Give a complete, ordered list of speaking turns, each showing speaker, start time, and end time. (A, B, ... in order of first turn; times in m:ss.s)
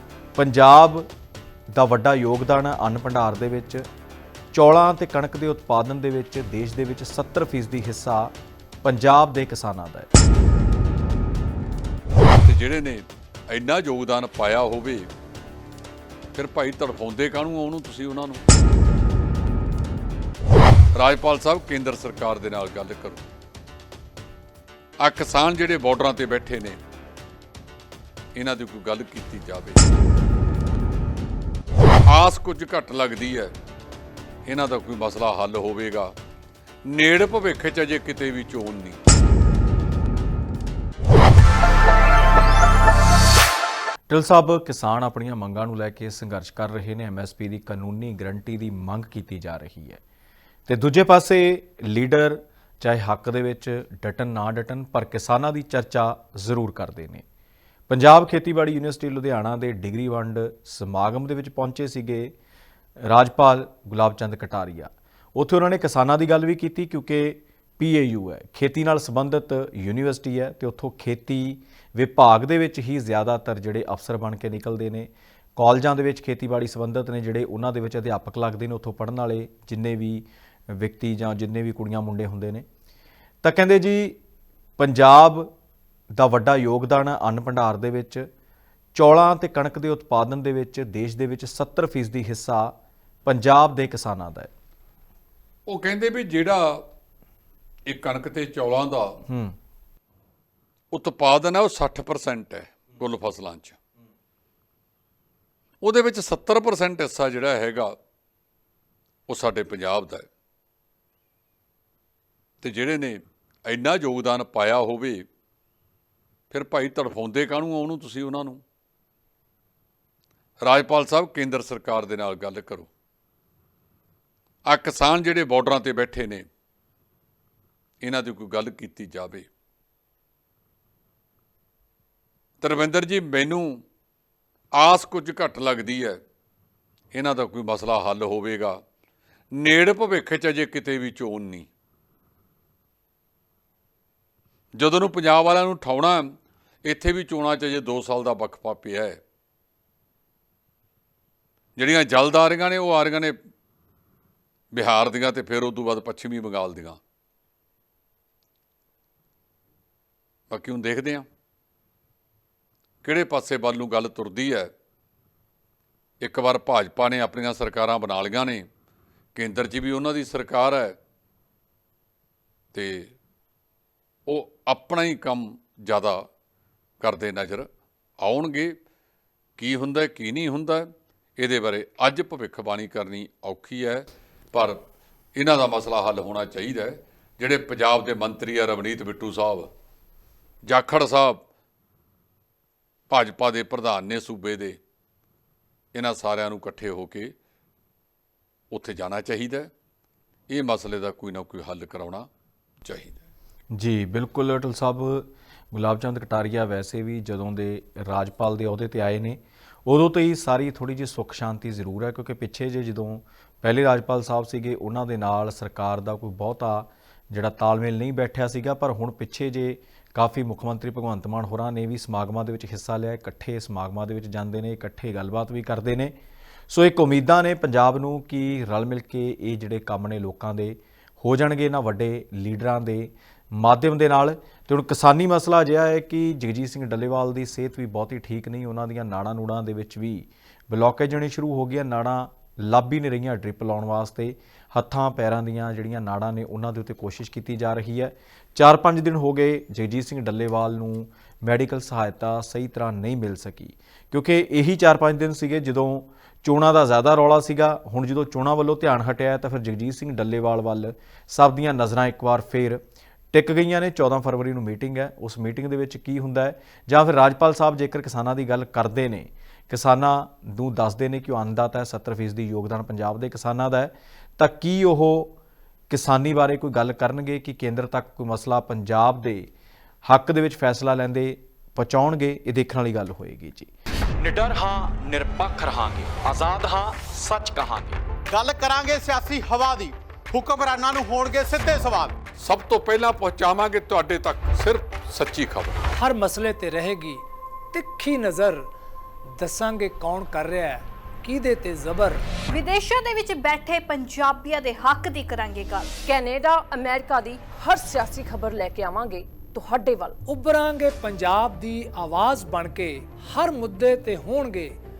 0:00.4-0:01.1 A
0:01.7-0:03.8 A
0:04.5-0:08.3 A
0:08.8-0:10.1 A
0:12.4-0:15.1 B
0:16.3-0:18.4 B
0:20.9-0:23.2 B
0:25.0-0:26.8 B
0:28.3-0:29.9 B
0:32.1-0:33.5 B
0:34.4-0:36.1 B
0:36.9-0:39.0 B
0:44.1-0:50.0 A
0:50.7-0:57.2 A
0:57.9-1:02.3 A
1:03.1-1:22.6 A
1:23.4-1:24.2 A
1:24.8-1:25.5 A
1:26.2-1:28.3 A
1:29.0-1:32.7 A
1:33.2-1:34.5 A
1:35.7-1:36.8 B
1:37.9-1:39.2 B
1:39.3-1:39.5 A
1:40.9-1:43.8 B
1:45.8-1:47.9 B
1:49.3-1:50.2 B
1:52.6-1:55.2 B
1:56.5-1:58.6 B
2:00.6-2:02.9 B
2:04.7-2:06.4 B
2:08.0-2:09.5 B
2:12.6-2:13.8 B
2:14.8-2:16.2 B
2:17.1-2:18.8 B
2:19.6-2:21.7 B
2:24.8-2:29.2 B
2:31.8-2:33.3 B
2:34.7-2:37.0 B
2:40.5-2:41.2 B
2:43.0-2:44.7 B
2:46.2-2:48.7 B
2:49.3-2:50.9 B
2:52.7-2:53.1 B
2:54.3-2:56.2 B
2:57.0-2:57.7 B
2:58.2-2:58.7 B
2:59.6-3:04.8 B
3:05.4-3:09.7 B
3:10.6-3:11.4 B
3:13.1-3:14.8 B
3:15.9-3:17.3 B
3:18.7-3:19.7 B
3:20.5-3:22.3 B
3:22.8-3:23.2 B
3:23.7-3:46.1 A
3:46.7-4:22.8 A
4:23.3-4:35.3 A
4:35.9-4:39.5 A
4:40.0-4:43.7 A
4:44.2-4:48.0 C
4:48.3-4:52.2 D
4:52.4-4:55.8 B
4:56.0-4:58.6 E
4:59.3-5:02.2 E
5:02.5-5:05.9 F
5:06.0-5:10.2 G
5:10.2-5:14.8 E